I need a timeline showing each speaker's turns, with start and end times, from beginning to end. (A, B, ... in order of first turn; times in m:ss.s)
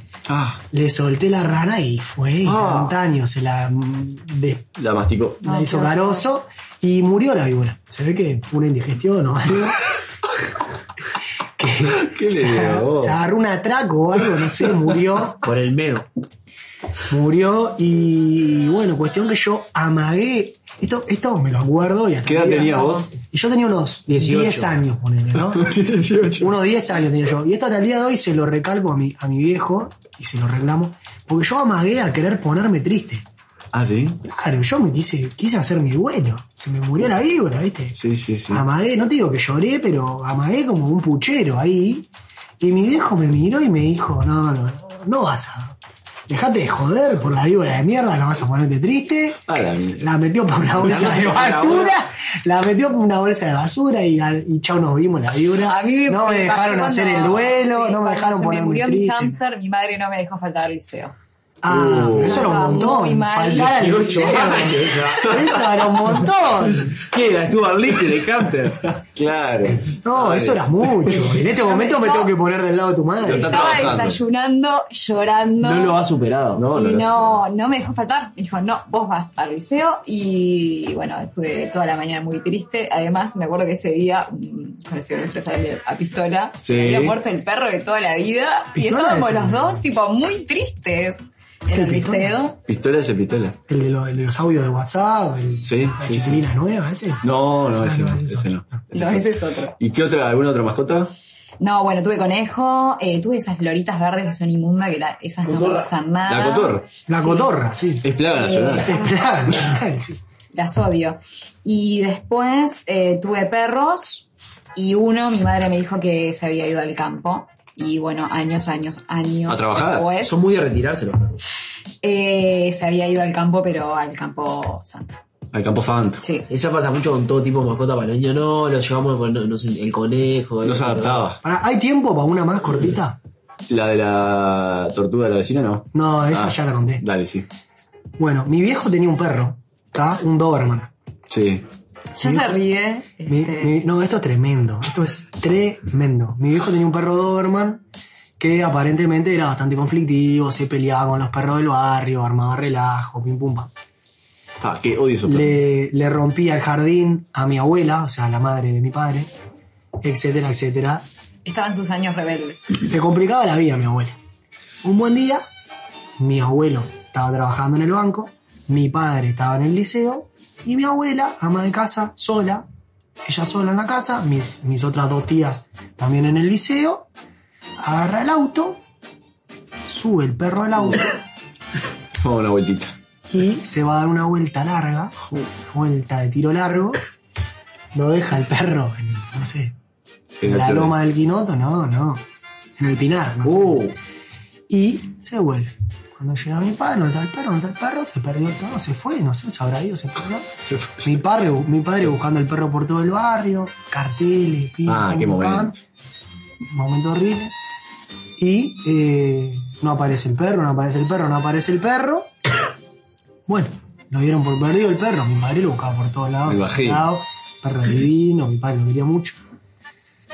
0:00.3-0:00.6 A
0:00.7-0:04.7 B
0:02.5-0:02.9 A
0:04.8-0:05.4 A
0:05.4-0:09.8 B
0:05.4-0:06.2 C
0:11.6-0:15.4 B
0:11.9-0:13.2 A
0:15.4-0:16.1 D
0:17.1-0:33.2 B
0:22.2-0:23.1 A
0:24.1-0:24.7 D
0:25.5-0:26.5 A
0:33.7-0:34.2 A
0:34.3-0:38.0 B
0:38.0-0:38.6 A
0:38.5-0:42.1 B
0:42.6-0:45.8 B
0:46.3-0:59.4 B
0:49.5-0:50.1 A
0:50.8-0:51.6 A
0:50.8-0:52.0 D
0:55.6-1:01.1 C
1:01.6-1:07.0 B
1:01.7-1:02.6 A
1:02.2-1:04.4 C
1:03.5-1:05.5 D
1:05.3-1:05.9 A
1:06.7-1:08.8 D
1:08.9-1:11.2 A
1:09.8-1:13.7 B
1:11.6-1:12.3 C
1:13.2-1:14.2 A
1:13.3-1:15.9 C
1:15.6-1:17.0 D
1:16.6-1:17.4 A
1:16.7-1:32.6 C
1:26.6-1:27.2 A
1:28.7-1:29.8 B
1:31.7-1:32.4 B
1:32.7-1:33.6 A
1:33.7-1:37.2 B
1:35.6-1:36.4 A
1:37.2-1:39.3 A
1:37.8-1:38.8 B
1:38.9-1:39.7 C
1:39.8-1:41.1 A
1:41.6-1:47.5 C
1:45.5-1:45.8 D
1:46.3-1:46.9 A
1:47.1-1:48.1 B
1:48.0-1:49.0 A
1:48.2-1:49.3 C
1:48.8-1:50.2 B
1:50.5-2:00.3 C
1:59.5-2:00.1 A
2:00.2-2:01.4 D
2:02.0-2:05.2 C
2:05.5-2:06.2 A
2:06.5-2:11.3 D
2:10.6-2:11.4 A
2:11.4-2:13.2 B
2:13.7-2:17.5 A
2:15.9-2:17.0 B
2:18.2-2:20.9 B
2:21.3-2:21.6 A
2:22.2-2:23.8 C
2:22.2-2:22.6 B
2:23.2-2:27.8 B
2:28.4-2:33.7 B
2:34.6-2:35.6 A
2:35.2-2:39.3 B
2:40.0-2:41.0 B
2:41.4-2:42.8 C
2:42.7-2:44.2 B
2:44.8-2:45.5 B
2:46.2-2:52.7 B
2:53.2-2:57.1 B
2:57.8-2:58.8 B
2:59.8-3:01.2 B
3:02.2-3:03.0 A
3:03.3-3:07.0 B
3:07.9-3:09.7 B
3:10.4-3:10.9 A
3:10.4-3:12.2 B
3:12.8-3:13.9 B
3:13.4-3:14.0 D
3:14.7-3:20.5 B
3:20.6-3:21.1 A
3:21.0-3:25.8 B
3:24.8-3:25.8 A
3:26.7-3:27.5 B
3:28.4-3:32.3 B
3:33.5-3:39.4 B
3:36.5-3:37.0 A